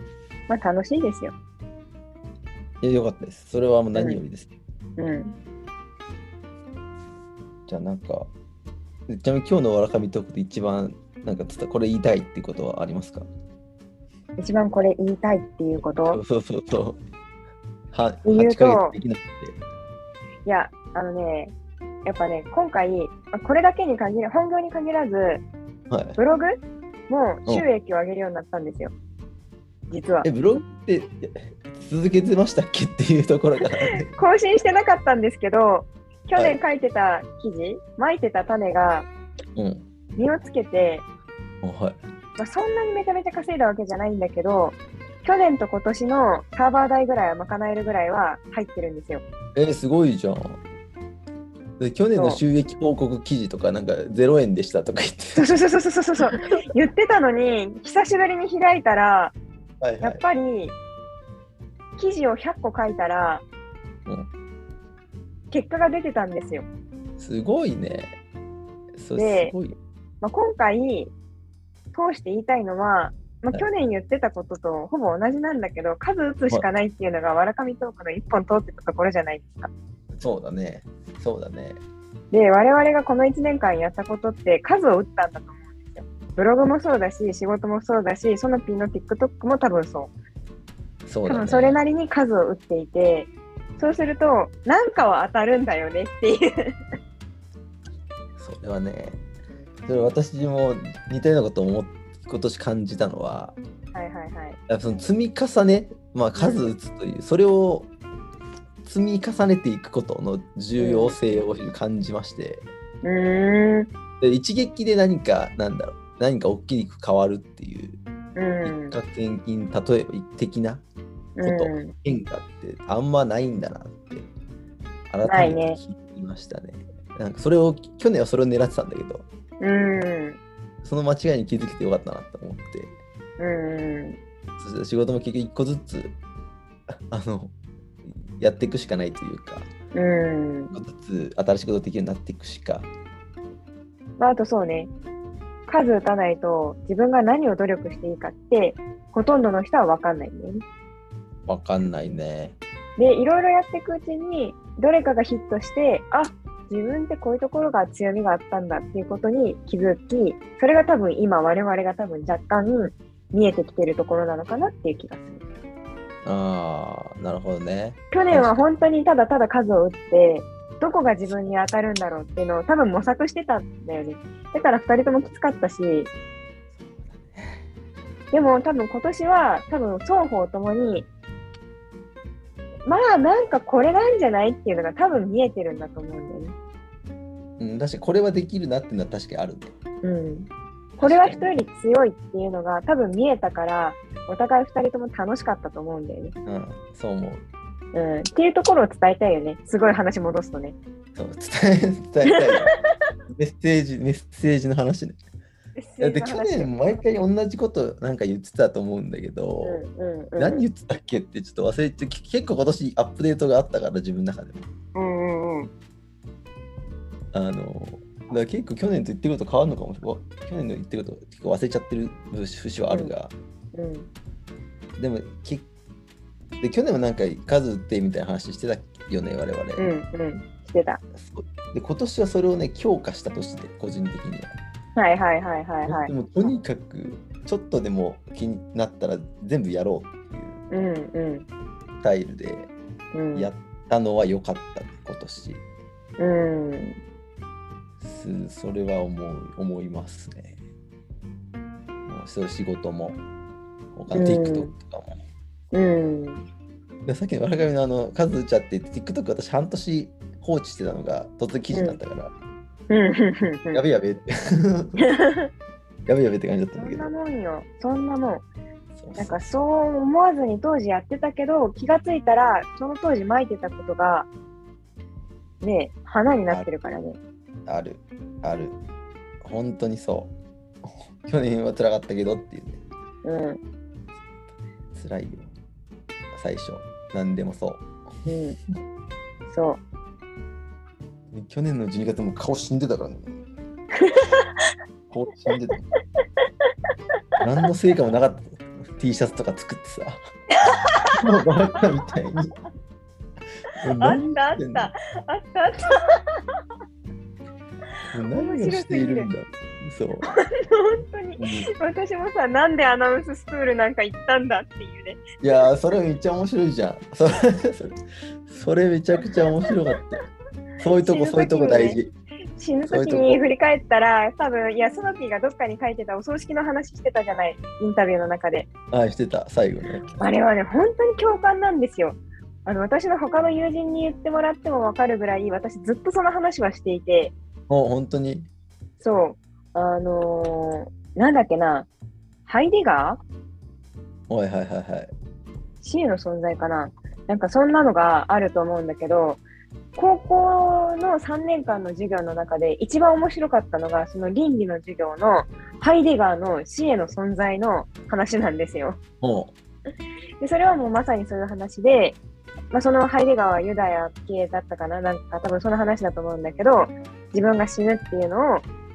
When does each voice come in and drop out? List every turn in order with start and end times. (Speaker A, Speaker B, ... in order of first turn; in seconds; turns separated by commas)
Speaker A: 0.5-1.3, Speaker B: 2.8-4.5, Speaker A: 4.0-4.2, Speaker A: 5.0-5.3, Speaker B: 7.7-8.3, Speaker B: 9.1-13.3, Speaker A: 14.4-16.2, Speaker B: 15.8-17.0, Speaker B: 17.9-19.6, Speaker A: 18.2-19.0, Speaker A: 20.5-21.5, Speaker A: 22.1-25.4, Speaker B: 25.9-26.2, Speaker A: 26.2-28.9, Speaker A: 29.9-30.3, Speaker B: 30.2-34.1, Speaker A: 34.1-39.1, Speaker B: 39.6-39.9, Speaker A: 40.2-41.0, Speaker B: 41.6-42.0, Speaker A: 42.4-49.2, Speaker B: 49.5-50.6, Speaker B: 51.8-55.5, Speaker A: 52.1-52.4, Speaker A: 55.4-59.4, Speaker B: 59.8-60.2, Speaker A: 60.0-60.8, Speaker A: 62.0-63.5, Speaker A: 65.5-66.7, Speaker B: 67.2-68.2, Speaker B: 69.0-69.8, Speaker A: 69.2-69.5, Speaker A: 70.2-71.1, Speaker A: 71.9-79.7, Speaker B: 80.1-81.8, Speaker A: 82.3-90.1, Speaker B: 91.1-91.8, Speaker A: 91.3-96.7, Speaker B: 98.4-99.2, Speaker B: 99.9-103.6, Speaker A: 103.9-104.6, Speaker B: 104.7-107.9, Speaker A: 106.3-106.7, Speaker B: 108.8-112.7, Speaker A: 110.8-111.2, Speaker A: 113.0-113.9, Speaker B: 114.2-118.0, Speaker A: 118.4-119.0, Speaker B: 118.6-120.8, Speaker A: 121.4-121.9, Speaker B: 121.4-124.3, Speaker B: 125.1-129.3, Speaker A: 125.2-125.8, Speaker A: 129.6-130.4, Speaker B: 130.8-132.9, Speaker A: 133.4-134.2, Speaker B: 134.6-136.2, Speaker B: 136.9-137.5, Speaker B: 138.1-139.7, Speaker A: 139.9-140.8, Speaker B: 140.7-142.9, Speaker A: 144.2-144.9, Speaker A: 145.7-150.6, Speaker B: 151.5-152.6, Speaker A: 153.0-165.4, Speaker B: 166.2-168.7, Speaker A: 168.1-176.1, Speaker B: 176.9-177.6, Speaker A: 178.3-181.1, Speaker A: 182.9-186.6, Speaker B: 187.6-189.8, Speaker A: 190.0-196.3, Speaker B: 191.0-191.5, Speaker B: 196.5-197.4, Speaker A: 197.9-200.8, Speaker B: 201.2-202.7, Speaker A: 202.3-202.7, Speaker B: 203.3-205.2, Speaker A: 205.8-206.7, Speaker B: 206.0-209.8, Speaker A: 209.6-210.7, Speaker B: 210.4-214.7, Speaker A: 214.9-215.7, Speaker B: 217.3-223.3, Speaker A: 223.7-224.1, Speaker B: 225.0-225.7, Speaker B: 226.6-229.9, Speaker A: 229.8-231.0, Speaker B: 231.2-234.5, Speaker A: 235.0-236.1, Speaker B: 235.9-240.6, Speaker A: 240.7-241.5, Speaker B: 242.0-242.7, Speaker A: 243.1-243.5, Speaker B: 243.3-245.6, Speaker A: 246.2-247.0, Speaker B: 248.0-250.6, Speaker B: 252.1-253.2, Speaker B: 253.9-255.2, Speaker A: 254.1-254.7, Speaker A: 255.7-256.5, Speaker B: 257.1-262.3, Speaker A: 261.7-262.0, Speaker A: 262.9-263.8, Speaker B: 263.7-265.0, Speaker A: 265.1-265.5, Speaker B: 266.1-267.1, Speaker A: 266.8-268.4, Speaker B: 269.0-269.6, Speaker A: 269.2-274.3, Speaker A: 275.6-277.2, Speaker B: 277.7-278.8, Speaker B: 279.4-280.3, Speaker B: 280.9-282.8, Speaker A: 283.2-283.6, Speaker B: 284.9-285.5, Speaker B: 286.3-287.9, Speaker A: 288.3-288.6, Speaker A: 289.5-289.8, Speaker B: 291.3-293.4, Speaker A: 294.0-294.7, Speaker B: 295.1-295.8, Speaker B: 297.4-300.2, Speaker A: 300.6-301.1, Speaker B: 301.1-302.5, Speaker B: 303.8-304.9, Speaker A: 304.0-306.4, Speaker B: 308.1-310.3, Speaker A: 308.3-309.3, Speaker A: 310.3-315.4, Speaker B: 311.4-311.7, Speaker B: 315.4-320.2, Speaker B: 320.8-322.1, Speaker A: 321.0-322.0, Speaker A: 322.6-328.7, Speaker B: 322.9-323.4, Speaker B: 328.9-330.2, Speaker A: 330.2-337.4, Speaker B: 337.7-338.5, Speaker A: 339.0-341.9, Speaker A: 342.5-343.2, Speaker B: 344.3-345.1, Speaker A: 345.8-349.4, Speaker A: 350.0-359.0, Speaker B: 359.2-359.5, Speaker A: 360.4-362.2, Speaker A: 362.7-368.7